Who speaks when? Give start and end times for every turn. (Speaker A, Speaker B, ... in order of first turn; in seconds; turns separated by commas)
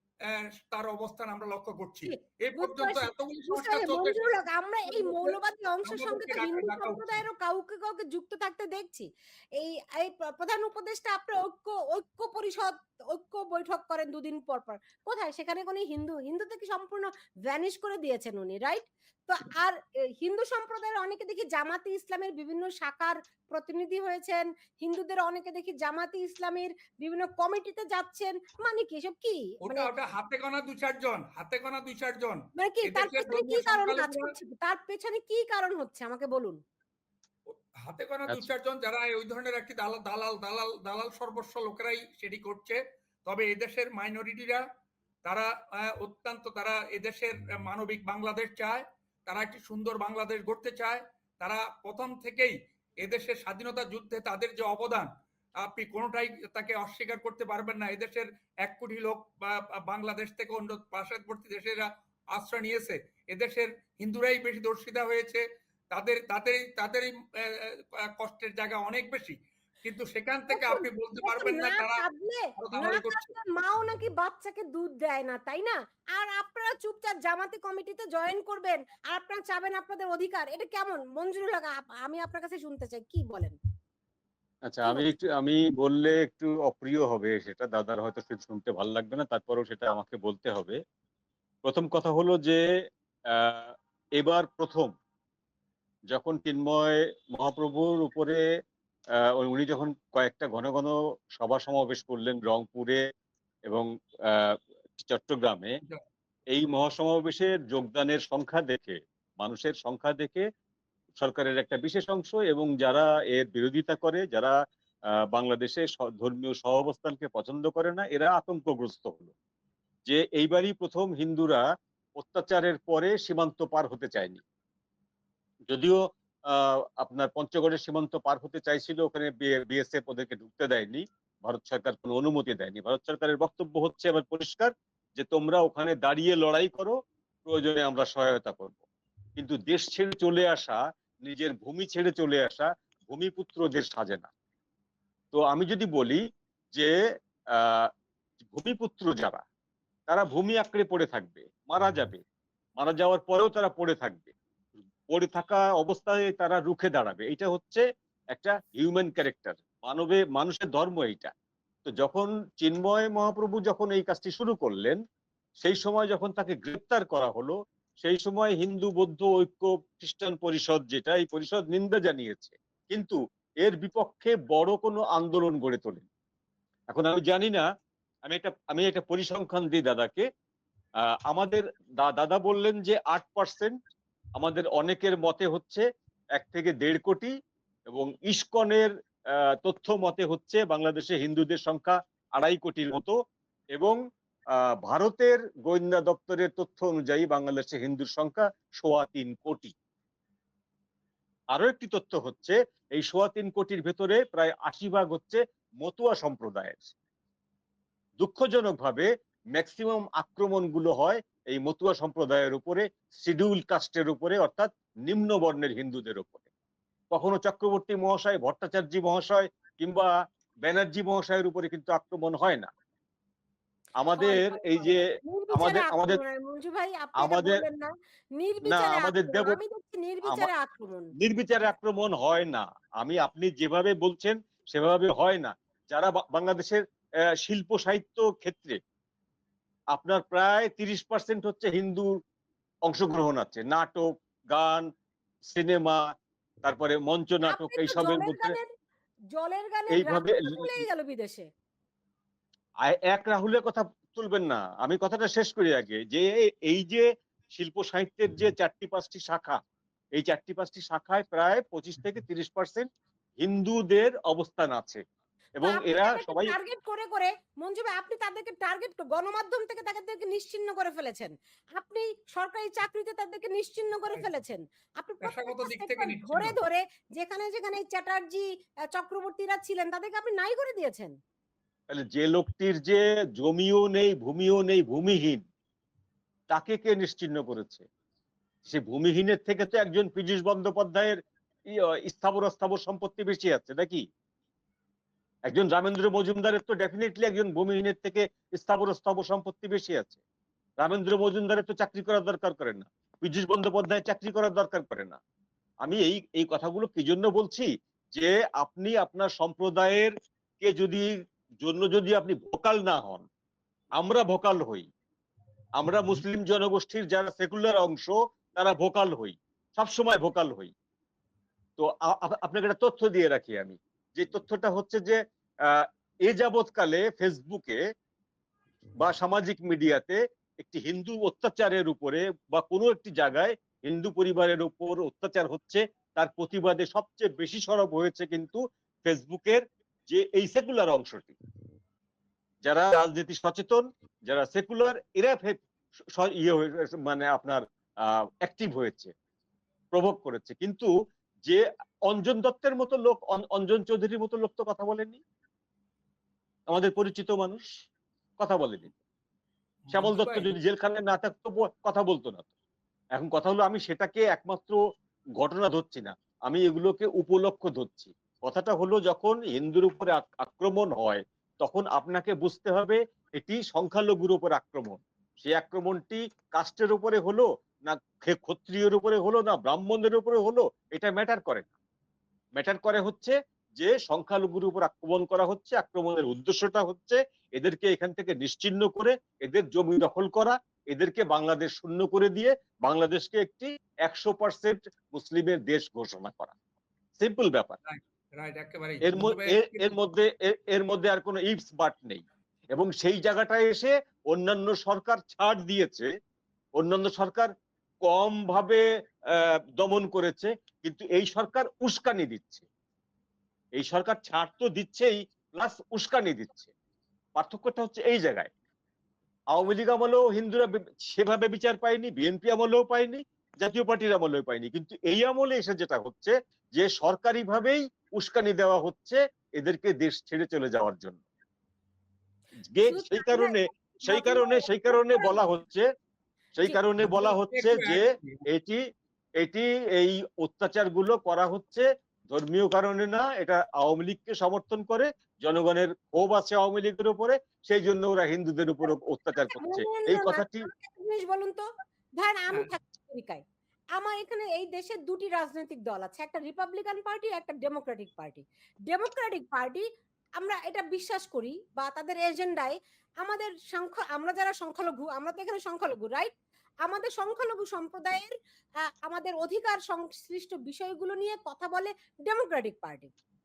Speaker A: 0.3-7.2, Speaker B: 2.0-29.9, Speaker A: 29.6-34.3, Speaker B: 32.6-36.6, Speaker A: 37.5-44.6, Speaker A: 45.2-55.1, Speaker A: 55.6-72.0, Speaker B: 70.5-83.6, Speaker A: 72.6-73.3, Speaker C: 84.7-90.8, Speaker C: 91.6-92.6, Speaker C: 93.3-94.9, Speaker C: 96.1-98.4, Speaker C: 99.3-103.0, Speaker C: 103.7-105.7, Speaker C: 106.5-110.4, Speaker C: 111.2-114.5, Speaker C: 115.3-119.3, Speaker C: 120.1-121.6, Speaker C: 122.2-124.4, Speaker C: 125.7-138.8, Speaker C: 139.4-144.3, Speaker C: 145.3-146.2, Speaker C: 147.6-147.9, Speaker C: 148.4-149.4, Speaker C: 150.1-152.2, Speaker C: 152.8-154.3, Speaker C: 155.1-161.3, Speaker C: 161.8-165.0, Speaker C: 165.6-176.1, Speaker C: 176.9-177.7, Speaker C: 178.2-180.2, Speaker C: 181.3-183.7, Speaker C: 184.4-185.8, Speaker C: 186.3-187.3, Speaker C: 187.9-188.9, Speaker C: 189.6-193.1, Speaker C: 194.8-199.7, Speaker C: 201.5-206.9, Speaker C: 208.2-216.4, Speaker C: 217.1-220.1, Speaker C: 220.6-222.7, Speaker C: 224.0-226.2, Speaker B: 224.2-231.1, Speaker C: 227.2-227.6, Speaker C: 228.7-229.6, Speaker C: 230.2-230.5, Speaker C: 231.2-236.8, Speaker C: 237.4-238.8, Speaker C: 239.9-242.1, Speaker C: 242.8-244.9, Speaker C: 245.4-246.0, Speaker C: 246.6-248.6, Speaker B: 247.5-248.7, Speaker B: 249.3-251.5, Speaker C: 249.9-250.8, Speaker C: 252.8-259.6, Speaker C: 260.1-262.9, Speaker C: 263.4-265.0, Speaker C: 265.6-266.5, Speaker B: 265.6-281.1, Speaker A: 275.2-276.5, Speaker C: 281.9-285.4, Speaker C: 286.5-287.9, Speaker C: 288.6-294.0, Speaker C: 295.5-300.2, Speaker C: 300.8-305.2, Speaker C: 305.8-311.1, Speaker C: 311.6-313.3, Speaker C: 314.0-314.9, Speaker C: 315.8-320.7, Speaker C: 321.8-327.8, Speaker C: 329.0-341.4, Speaker C: 342.6-345.6, Speaker C: 346.2-347.6, Speaker C: 348.4-349.1, Speaker C: 349.9-350.9, Speaker C: 351.4-355.2, Speaker C: 356.7-357.6, Speaker C: 358.4-358.9, Speaker A: 359.9-360.5, Speaker C: 359.9-362.5, Speaker C: 363.1-364.8, Speaker C: 365.4-381.7, Speaker C: 382.6-396.5, Speaker C: 397.2-397.8, Speaker A: 397.9-399.9, Speaker C: 399.0-406.1, Speaker C: 406.8-407.5, Speaker C: 408.0-408.8, Speaker C: 409.3-412.6, Speaker C: 413.8-416.7, Speaker C: 417.4-418.5, Speaker C: 419.5-431.2, Speaker C: 432.7-435.8, Speaker B: 432.9-435.4, Speaker C: 436.6-438.0, Speaker A: 437.0-438.4, Speaker C: 438.5-438.8, Speaker C: 439.4-450.6, Speaker B: 449.4-451.6, Speaker B: 452.2-453.4, Speaker B: 453.9-459.8, Speaker B: 460.4-466.3, Speaker B: 466.8-468.3, Speaker B: 468.9-473.1